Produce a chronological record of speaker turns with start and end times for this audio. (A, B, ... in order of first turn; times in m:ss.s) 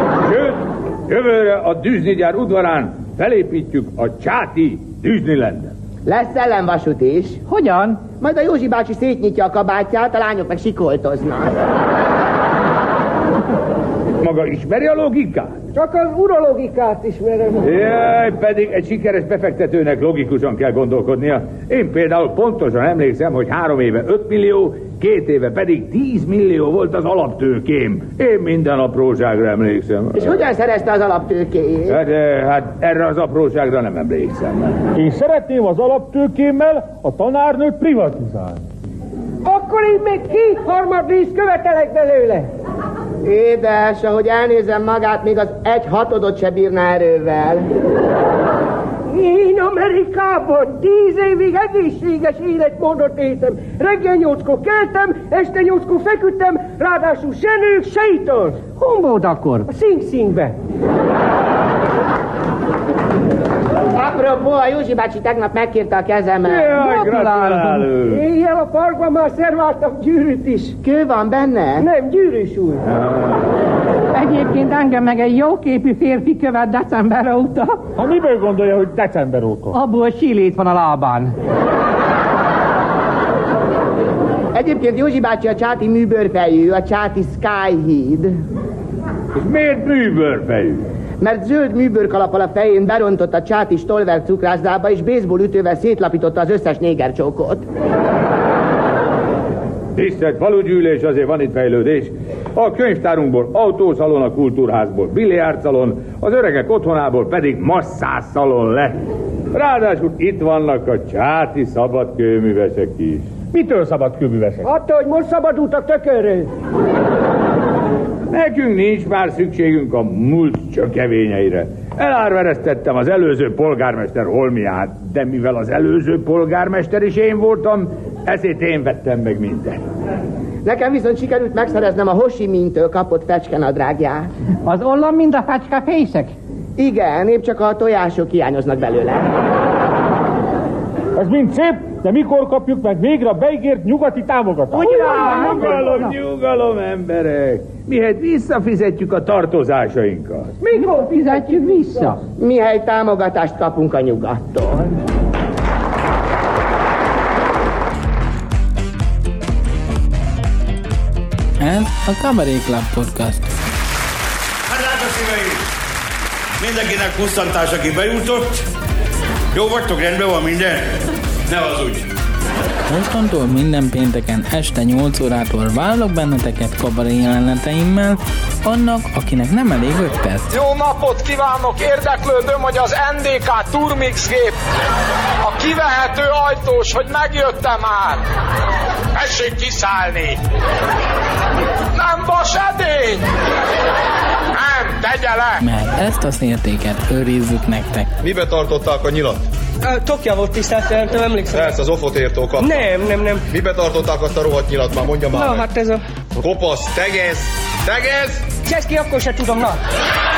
0:00.2-0:05.7 A
0:06.0-0:07.4 B
0:07.5-0:08.0 C
0:08.2-0:11.6 B
0:14.2-0:15.6 A
0:15.7-0:17.7 D
0:17.6-0:30.2 A
0:30.1-0:32.0 B
0:31.9-0:34.8 A
0:34.9-0:38.6 E
0:39.4-0:42.5 D
0:43.3-0:47.7 B
0:49.1-0:58.6 D
0:58.7-0:59.7 C
0:59.7-1:00.6 D
1:03.9-1:06.8 B
1:06.4-1:08.2 A
1:06.8-1:07.8 C
1:08.0-1:10.8 D
1:10.8-1:11.8 B
1:11.8-1:12.9 D
1:12.9-1:13.4 A
1:14.1-1:17.8 C
1:18.0-1:19.7 E
1:19.7-1:21.3 C
1:24.5-1:28.4 B
1:29.3-1:30.8 A
1:31.2-1:37.6 B
1:39.9-1:49.0 A
1:49.5-1:53.3 A
1:53.5-1:54.7 E
1:54.6-1:56.5 D
1:58.3-2:09.8 A
2:10.6-2:14.3 B
2:14.6-2:16.3 C
2:16.8-2:19.3 B
2:21.2-2:25.1 E
2:24.7-2:26.1 D
2:25.1-2:30.5 A
2:25.3-2:25.6 C
2:30.6-2:32.2 D
2:30.7-2:32.2 C
2:32.4-2:34.9 B
2:41.6-2:43.4 F
2:44.7-2:45.6 G
2:46.6-2:48.6 G
2:49.5-2:51.0 G
2:51.5-2:52.1 G
2:52.9-3:00.5 F
3:00.5-3:04.6 H
3:05.4-3:08.2 H
3:09.1-3:10.4 H
3:11.9-3:13.2 H
3:14.5-3:15.6 H
3:15.6-3:18.1 F
3:18.2-3:19.4 I
3:19.8-3:21.8 J
3:21.5-3:22.8 I
3:22.6-3:23.4 J
3:23.5-3:25.7 I
3:25.3-3:26.0 J
3:26.4-3:28.5 I
3:28.6-3:29.8 J